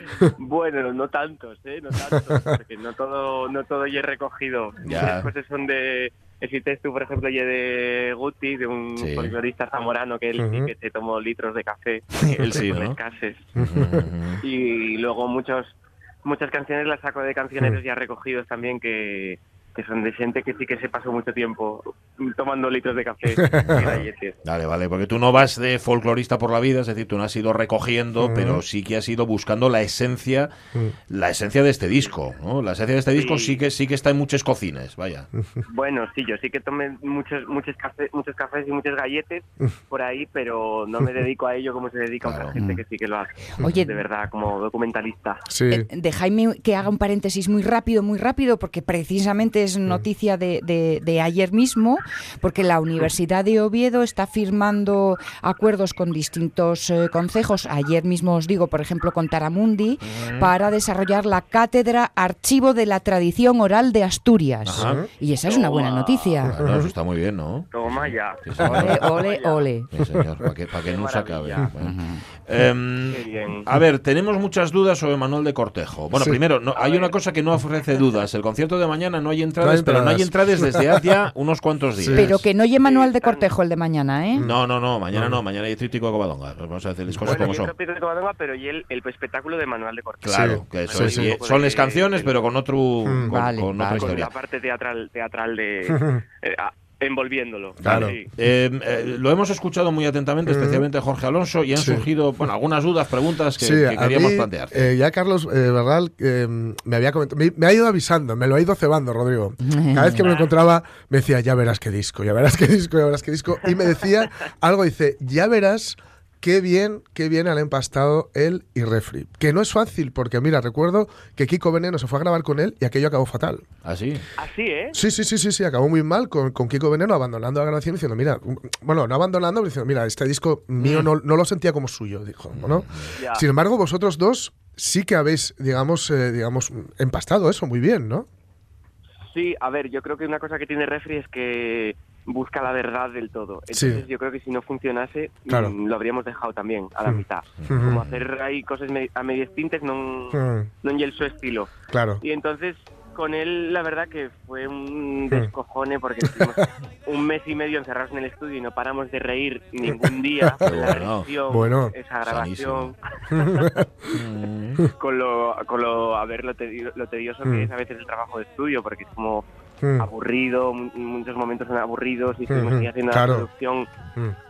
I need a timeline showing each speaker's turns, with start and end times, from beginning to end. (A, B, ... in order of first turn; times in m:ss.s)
0:00.4-0:13.5 A
0:04.8-0:05.3 B
0:09.0-0:09.4 B
0:10.4-0:10.7 C
0:12.4-0:13.0 B
0:13.6-0:14.1 C
0:13.6-0:14.4 B
0:14.4-0:24.4 A
0:23.4-0:23.9 C
0:23.6-0:30.5 B
0:28.2-0:28.6 C
0:31.1-0:35.3 B
0:33.1-0:33.6 A
0:35.7-0:45.4 A
0:42.2-0:42.5 B
0:42.6-0:42.8 D
0:43.6-0:43.9 D
0:45.5-0:45.9 C
0:45.7-1:06.6 D
1:00.0-1:00.5 B
1:04.6-1:05.0 B
1:04.8-1:05.1 C
1:05.4-1:06.4 A
1:06.5-1:09.1 B
1:06.6-1:06.9 C
1:07.7-1:09.6 A
1:08.6-1:09.9 D
1:09.9-1:22.4 B
1:10.8-1:11.7 A
1:11.8-1:12.2 D
1:13.1-1:13.7 A
1:16.7-1:17.1 A
1:19.6-1:21.0 C
1:22.0-1:22.3 C
1:22.1-1:24.4 D
1:22.8-1:23.5 A
1:24.3-1:24.6 C
1:24.4-1:27.7 B
1:27.1-1:27.5 C
1:27.2-1:32.4 A
1:30.2-1:34.3 B
1:30.3-1:31.3 C
1:33.0-1:33.3 C
1:33.3-1:34.1 D
1:33.9-1:38.3 A
1:35.9-1:36.2 C
1:37.8-1:38.2 C
1:37.8-1:44.9 B
1:40.4-1:40.8 C
1:41.7-1:42.1 C
1:43.6-2:03.6 C
1:49.6-1:50.3 D
1:50.2-1:50.5 A
2:03.8-2:04.2 B
2:04.4-2:05.0 A
2:04.9-2:18.3 C
2:10.8-2:11.1 B
2:12.5-2:13.1 B
2:13.2-2:13.4 A
2:19.3-2:43.7 A
2:23.7-2:24.0 C
2:25.5-2:25.8 C
2:27.0-2:28.0 C
2:27.6-2:28.2 B
2:30.3-2:30.7 C
2:31.9-2:32.2 C
2:39.8-2:40.6 C
2:40.6-2:41.3 B
2:41.5-2:41.9 C
2:42.2-2:43.0 B
2:43.3-2:44.2 C
2:44.1-2:44.8 B
2:45.0-2:49.4 A
2:47.4-2:47.7 C
2:49.8-2:50.1 C
2:50.0-2:53.9 A
2:52.5-2:53.5 C